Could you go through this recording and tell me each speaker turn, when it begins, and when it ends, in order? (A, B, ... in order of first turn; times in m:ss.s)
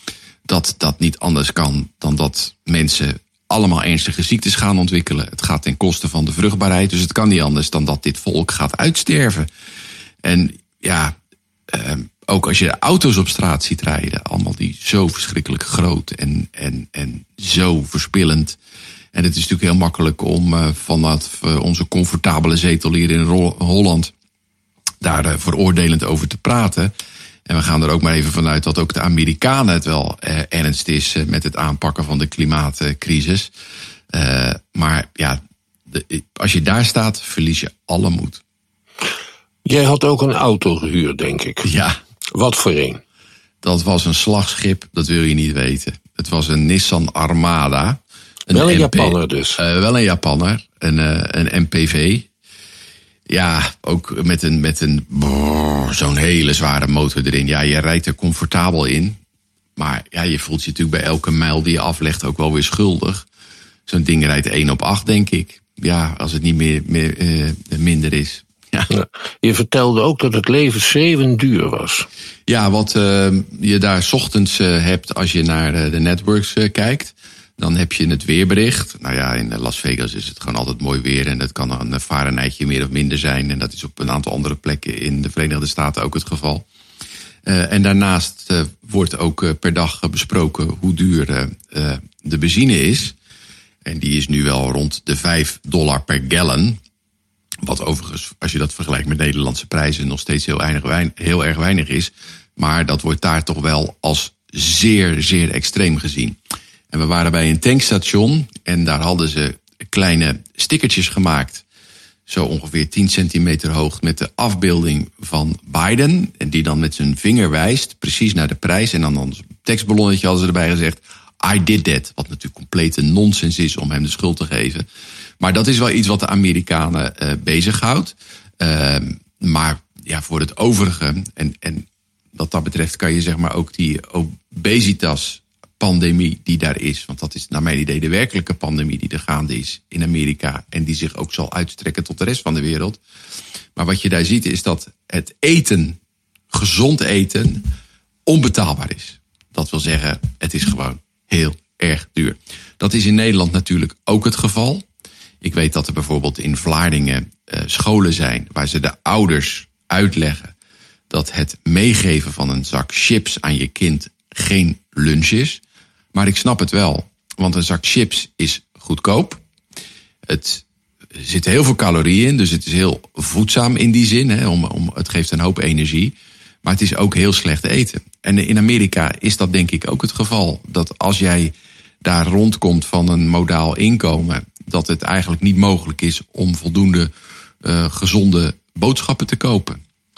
0:00.4-0:09.5 A
0:10.2-0:11.2 A
0:11.7-0:18.6 A
0:19.1-0:24.1 A
0:25.0-0:26.9 A
0:27.5-0:33.5 A
0:34.1-0:38.4 A
0:39.6-0:41.7 B
0:41.6-0:42.0 A
0:42.3-0:43.0 B
0:43.6-0:52.3 A
0:48.5-0:49.6 B
0:53.3-0:59.2 A
0:59.8-1:03.2 A
1:03.9-1:08.9 A
1:08.9-1:12.1 B
1:12.5-1:26.6 A
1:27.4-1:33.2 A
1:33.8-1:36.8 A
1:37.6-1:46.4 A
1:46.9-1:51.6 A
1:52.3-2:04.8 A
2:05.4-2:23.0 A
2:23.8-2:26.0 A
2:26.5-2:27.7 A
2:28.3-2:34.8 A
2:35.4-2:40.5 A
2:41.1-2:45.6 A
2:46.1-2:49.4 A
2:50.3-3:07.1 A
3:07.6-3:09.8 A